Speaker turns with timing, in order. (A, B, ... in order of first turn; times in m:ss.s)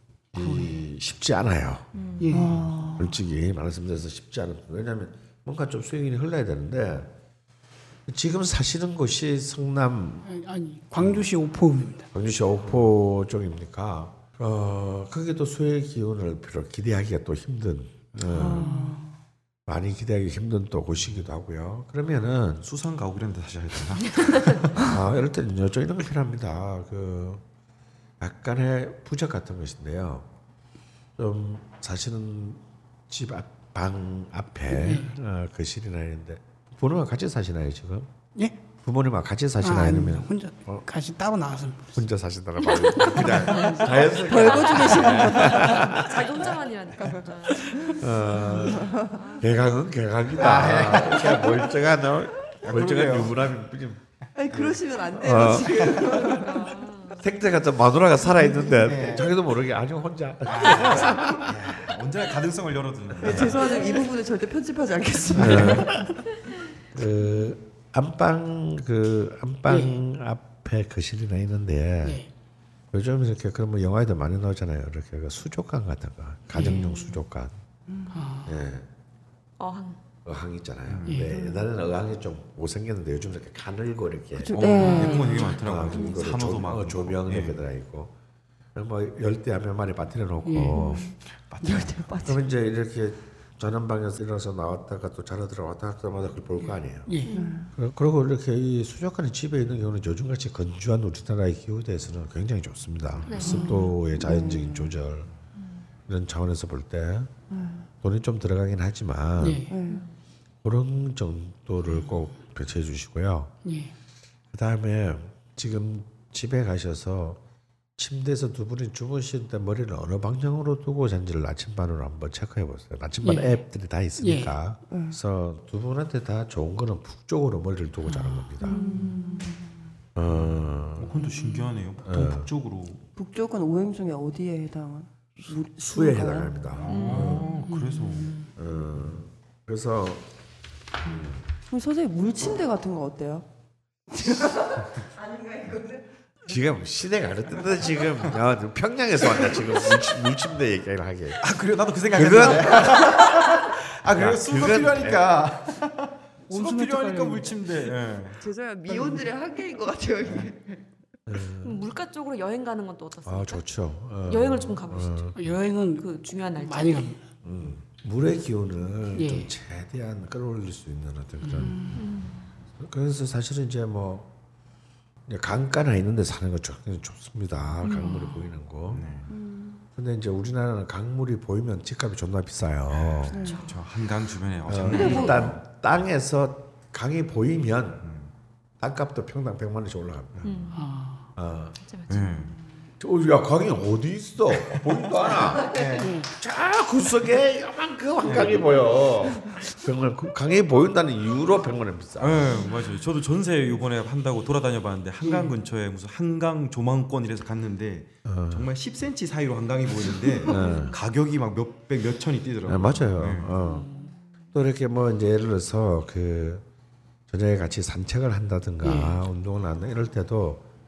0:00.3-0:01.9 A
0:00.4-0:00.8 B
0:01.9-0:02.5 C
0:02.2-0:02.7 B
0:02.3-0:03.2 D
0:02.9-0:07.1 A
0:08.1-0:10.3 A
0:10.3-0:12.1 B
0:12.1-0:18.7 A
0:18.2-0:19.2 D
0:18.6-0:19.0 B
0:19.7-0:22.6 A
0:22.6-0:24.9 E
0:24.8-0:27.4 A
0:28.2-0:30.3 A
0:31.2-0:38.1 A
0:34.7-0:35.2 B
0:38.8-0:40.8 A
0:39.6-0:42.0 B
0:42.0-0:46.3 A
0:43.7-0:48.0 C
0:44.2-0:46.0 D
0:44.9-0:45.4 B
0:47.0-0:49.2 D
0:48.0-0:54.0 A
0:49.0-0:49.6 C
0:50.4-0:51.6 E
0:52.6-0:53.4 E
0:54.4-0:57.4 D
0:54.5-0:56.5 E
0:55.2-0:55.9 A
0:56.5-0:57.2 C
0:57.2-1:01.7 A
0:58.5-0:59.3 E
1:00.5-1:04.0 E
1:03.2-1:06.3 D
1:05.3-1:05.9 A
1:06.9-1:12.2 A
1:09.7-1:10.0 B
1:12.0-1:12.3 B
1:12.9-1:17.5 A
1:16.6-1:16.8 B
1:17.9-1:18.2 D
1:18.1-1:18.5 B
1:18.5-1:18.9 A
1:19.6-1:20.0 C
1:20.3-1:28.1 A
1:20.9-1:21.3 E
1:21.1-1:21.4 B
1:24.4-1:26.0 D
1:24.6-1:27.6 E
1:28.7-1:31.1 A
1:30.5-1:30.9 B
1:30.8-1:32.4 D
1:31.4-1:32.2 E
1:32.2-1:37.1 A
1:36.6-1:37.4 B
1:37.3-1:37.7 D
1:37.8-1:45.3 A
1:43.3-1:43.7 C
1:43.4-1:43.9 B
1:43.6-1:44.9 D
1:46.1-1:47.3 A
1:47.5-1:47.9 D
1:48.0-1:49.7 A
1:49.4-1:49.7 B
1:49.7-1:50.0 D
1:50.6-1:53.5 A
1:53.6-1:53.9 B
1:54.5-1:57.4 A
1:58.0-2:08.8 A
2:03.2-2:03.6 B
2:04.2-2:04.6 B
2:04.9-2:05.2 D
2:08.6-2:09.7 D
2:08.7-2:09.1 B
2:10.2-2:11.2 A
2:10.3-2:13.0 E
2:12.0-2:12.5 A
2:13.2-2:16.8 D
2:15.5-2:17.5 A
2:16.8-2:18.4 E
2:16.9-2:17.4 C
2:17.6-2:18.3 D
2:18.6-2:20.3 A
2:21.0-2:21.4 A
2:21.7-2:23.5 D
2:24.1-2:26.1 D
2:26.5-2:31.5 A
2:31.4-2:38.4 E
2:32.1-2:33.3 A
2:34.1-2:35.4 A
2:36.5-2:37.7 B
2:38.4-2:40.8 D
2:41.3-2:41.9 A
2:41.6-2:43.6 C
2:43.2-2:45.3 A
2:44.3-2:45.3 C
2:45.4-2:47.2 B
2:45.9-2:47.2 C
2:47.4-2:51.9 A
2:49.2-2:49.5 B
2:51.4-2:52.0 B
2:52.0-2:52.4 C
2:52.8-2:54.3 A
2:55.3-2:59.1 A
2:58.9-2:59.3 E
2:59.3-2:59.8 D
3:00.0-3:03.4 A
3:03.3-3:03.6 D
3:03.4-3:03.8 C
3:03.6-3:05.6 E
3:04.7-3:08.1 A
3:05.0-3:05.4 C
3:05.0-3:05.5 D
3:08.0-3:08.3 E
3:08.8-3:10.5 A
3:10.4-3:10.8 E
3:10.4-3:10.8 C
3:10.7-3:11.3 B
3:11.4-3:11.8 A
3:11.8-3:12.5 C
3:12.1-3:12.5 E
3:13.0-3:15.8 A
3:14.6-3:14.9 E
3:15.5-3:16.0 C
3:15.6-3:16.1 E
3:16.0-3:16.3 B
3:16.4-3:22.5 A
3:18.2-3:18.6 E
3:22.2-3:33.6 E
3:28.2-3:28.7 A
3:30.5-3:31.0 A
3:32.7-3:33.9 A
3:33.6-3:34.1 D
3:34.5-3:36.7 A
3:37.3-3:40.6 A
3:38.8-3:39.2 B